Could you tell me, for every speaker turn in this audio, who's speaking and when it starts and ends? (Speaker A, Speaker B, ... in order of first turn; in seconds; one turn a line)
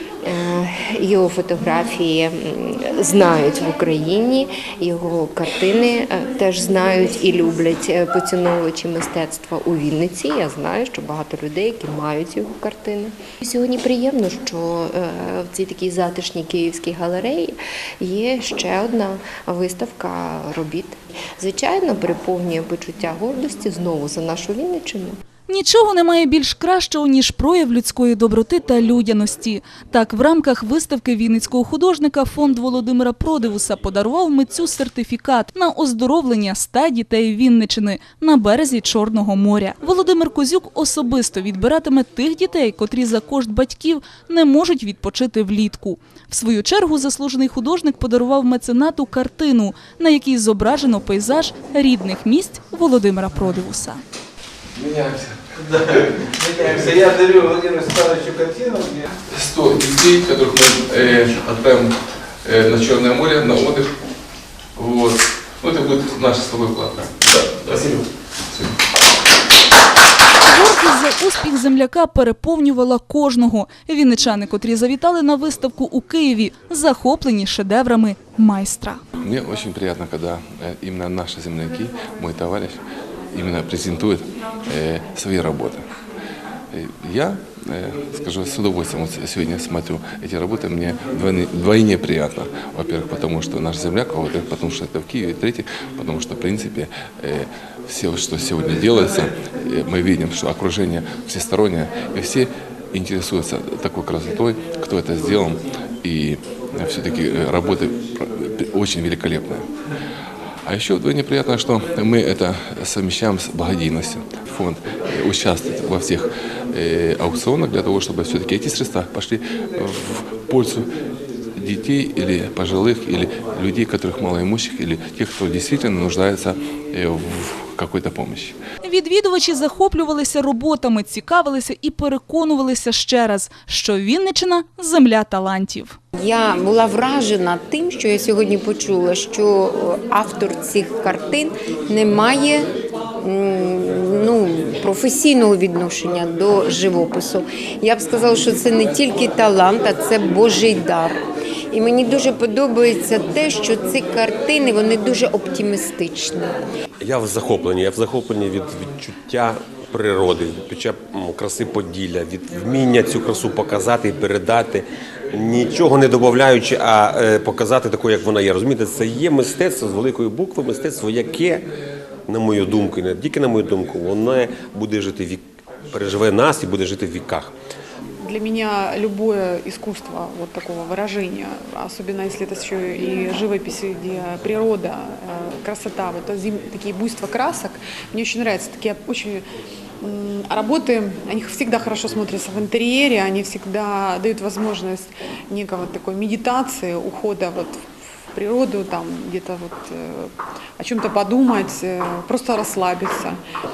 Speaker A: 0.2-25.2
Speaker B: 25.5-54.0
Speaker C: 54.7-55.4
Speaker D: 56.4-59.1
Speaker C: 59.3-61.9
Speaker C: 62.5-63.9
Speaker C: 64.8-68.7
Speaker B: 70.5-79.0
Speaker C: 79.2-82.8
Speaker C: 83.3-85.8
Speaker C: 86.7-109.6
Speaker C: 110.6-120.9
Speaker C: 121.5-128.6
Speaker B: 128.8-136.0
Speaker E: 136.2-142.7
Speaker E: 143.2-151.2
Speaker E: 151.7-156.6
Speaker F: 157.1-171.6
Speaker F: 172.3-175.4
Speaker F: 175.9-177.5
Speaker G: 178.2-189.4
Speaker G: 190.0-197.8
Speaker G: 198.3-203.4